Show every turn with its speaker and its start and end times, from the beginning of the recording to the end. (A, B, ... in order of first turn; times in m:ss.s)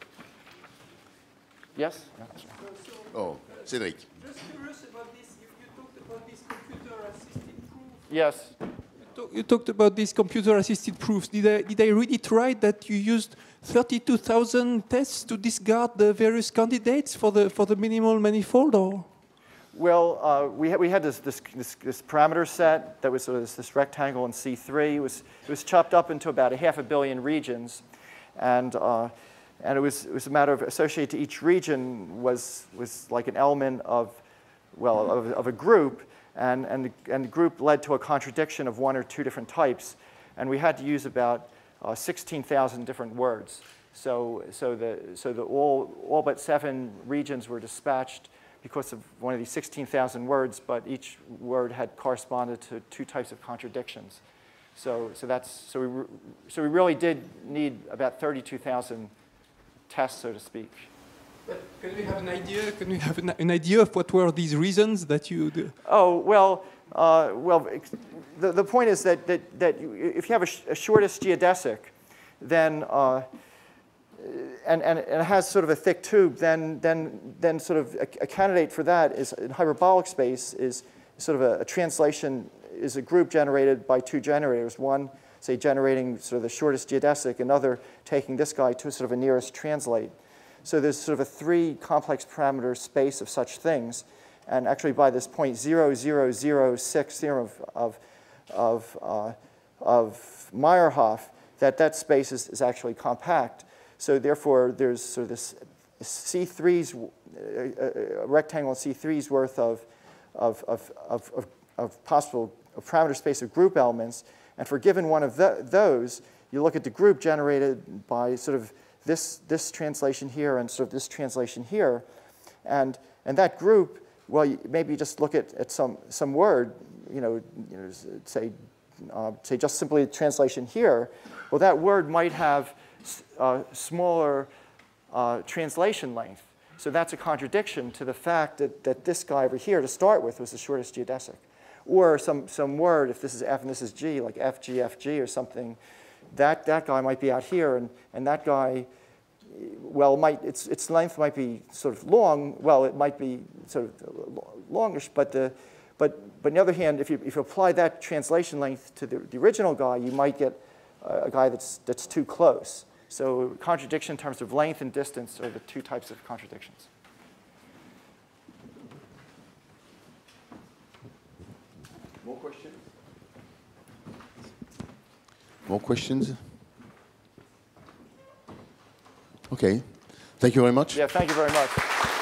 0:01.7-0:02.6 A
0:02.8-0:03.5 B
0:03.1-0:04.1 C
0:04.1-0:08.0 B
0:08.1-0:08.6 A
0:09.0-0:19.1 B
0:19.7-0:27.8 A
0:28.4-0:34.2 A
0:34.7-0:54.2 A
0:54.8-0:59.1 A
0:59.9-1:00.9 A
1:01.4-1:05.8 B
1:05.8-1:13.3 A
1:14.2-1:30.1 A
1:30.6-2:02.0 A
2:02.6-2:14.5 A
2:15.1-2:25.8 A
2:26.3-2:28.9 A
2:29.5-2:46.9 A
2:52.2-2:52.8 C
2:55.6-2:56.4 C
2:59.5-3:01.0 C
3:00.9-3:02.0 A